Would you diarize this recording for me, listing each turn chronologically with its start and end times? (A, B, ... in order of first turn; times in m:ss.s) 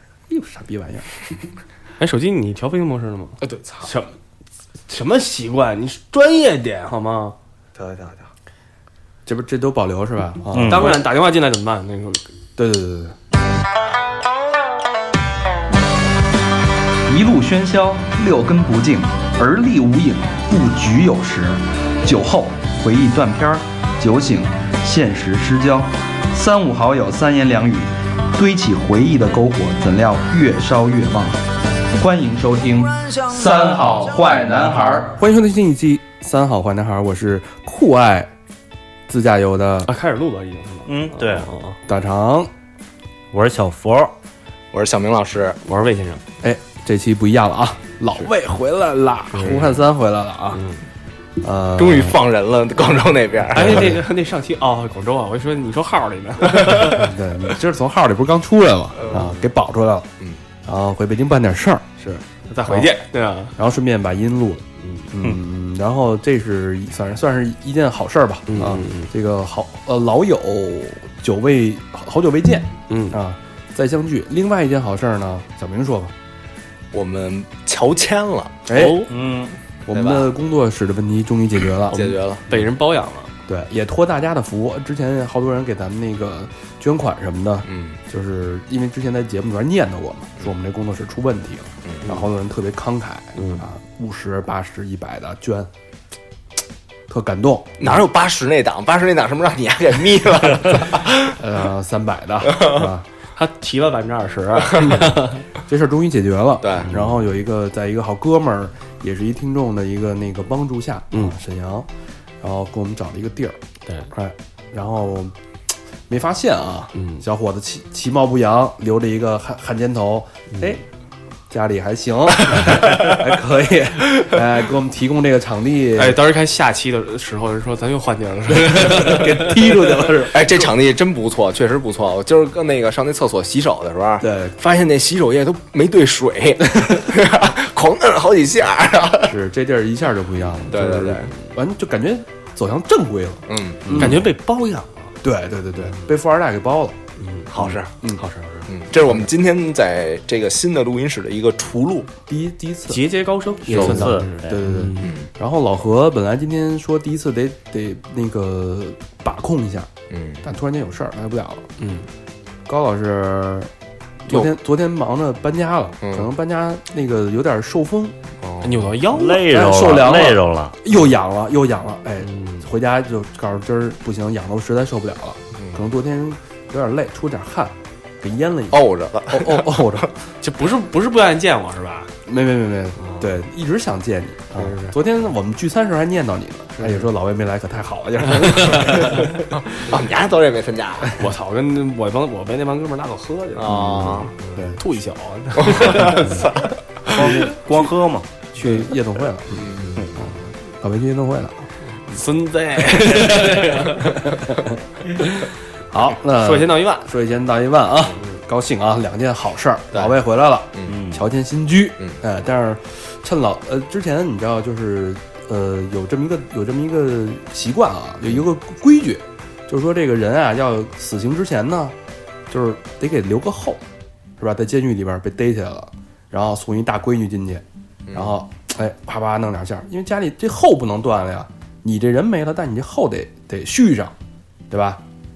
0:00.3-0:01.1 A
0:02.0-0:04.1 B
0:03.4-0:03.9 C
0:04.9-0:07.4 B
0:07.7-0:08.3 C
0:09.2-0:11.0 A
0:10.5-0:11.0 D
0:10.6-0:12.2 B
0:12.6-0:13.1 A
0:17.0-0:35.1 E
0:33.5-0:38.3 A
0:39.1-0:39.9 A
0:39.8-0:41.8 B
0:40.8-0:41.5 D
0:41.9-0:42.5 A
0:43.3-0:44.1 D
0:44.7-0:45.6 C
0:45.6-0:46.2 B
0:46.4-0:50.6 A
0:49.3-0:49.8 B
0:50.5-0:50.8 B
0:51.4-0:52.2 A
0:51.8-0:53.9 C
0:53.5-0:57.1 B
0:53.6-0:54.0 A
0:56.9-1:00.1 A
0:59.0-0:59.3 C
1:00.6-1:01.8 A
1:02.0-1:03.5 B
1:03.6-1:16.1 A
1:04.8-1:05.1 B
1:08.5-1:09.1 B
1:12.9-1:13.2 B
1:16.9-1:18.6 C
1:18.7-1:19.1 A
1:18.7-1:19.1 B
1:19.1-1:19.6 D
1:19.9-1:22.2 A
1:19.9-1:20.3 C
1:21.9-1:22.5 C
1:22.5-1:23.3 B
1:23.5-1:35.7 A
1:27.6-1:28.0 C
1:31.8-1:32.1 C
1:33.3-1:33.7 B
1:37.1-1:37.9 A
1:37.8-1:41.4 C
1:41.2-1:43.1 A
1:43.3-1:45.4 B
1:44.8-1:51.9 A
1:46.6-1:46.9 C
1:46.8-1:47.2 B
1:52.4-1:53.6 A
1:54.1-1:55.4 A
1:56.1-2:00.8 A
1:56.9-1:57.2 B
2:00.5-2:00.8 B
2:01.5-2:06.2 A
2:06.0-2:09.7 B
2:08.5-2:10.6 A
2:10.3-2:19.3 C
2:14.2-2:14.5 A
2:19.2-2:24.2 A
2:20.7-2:21.3 C
2:23.5-2:24.1 C
2:23.9-2:25.1 B
2:25.2-2:27.0 A
2:27.2-2:28.7 B
2:27.5-2:27.9 C
2:28.7-2:32.1 C
2:32.3-2:33.0 A
2:32.9-2:35.1 B
2:33.7-2:34.6 D
2:33.7-2:34.1 C
2:33.8-2:39.9 A
2:35.0-2:35.3 C
2:40.1-2:40.4 C
2:40.4-2:41.6 A
2:41.8-2:42.1 B
2:42.6-2:43.7 A
2:44.2-2:48.2 A
2:46.0-2:46.3 C
2:48.4-2:48.9 C
2:48.6-2:49.4 B
2:49.1-2:50.8 D
2:49.4-3:00.2 A
2:52.2-2:52.6 B
2:55.6-2:55.8 C
2:58.7-3:00.0 C
3:00.4-3:02.1 B
3:02.2-3:09.2 A
3:03.0-3:03.3 B
3:04.5-3:05.0 B
3:06.8-3:07.1 B
3:08.3-3:09.4 B
3:09.5-3:11.1 C
3:11.1-3:16.5 B
3:13.5-3:14.3 C
3:13.7-3:14.8 A
3:15.6-3:16.7 C
3:17.0-3:18.3 D
3:17.1-3:17.5 B
3:18.5-3:21.7 A
3:18.6-3:18.9 B
3:19.5-3:19.9 C
3:19.8-3:20.1 B
3:21.9-3:24.4 B
3:23.0-3:23.6 A
3:25.2-3:42.0 A
3:26.3-3:27.1 B
3:30.9-3:31.2 D
3:42.5-3:43.8 A
3:44.4-3:54.1 A
3:48.1-3:48.4 C
3:54.7-3:55.0 A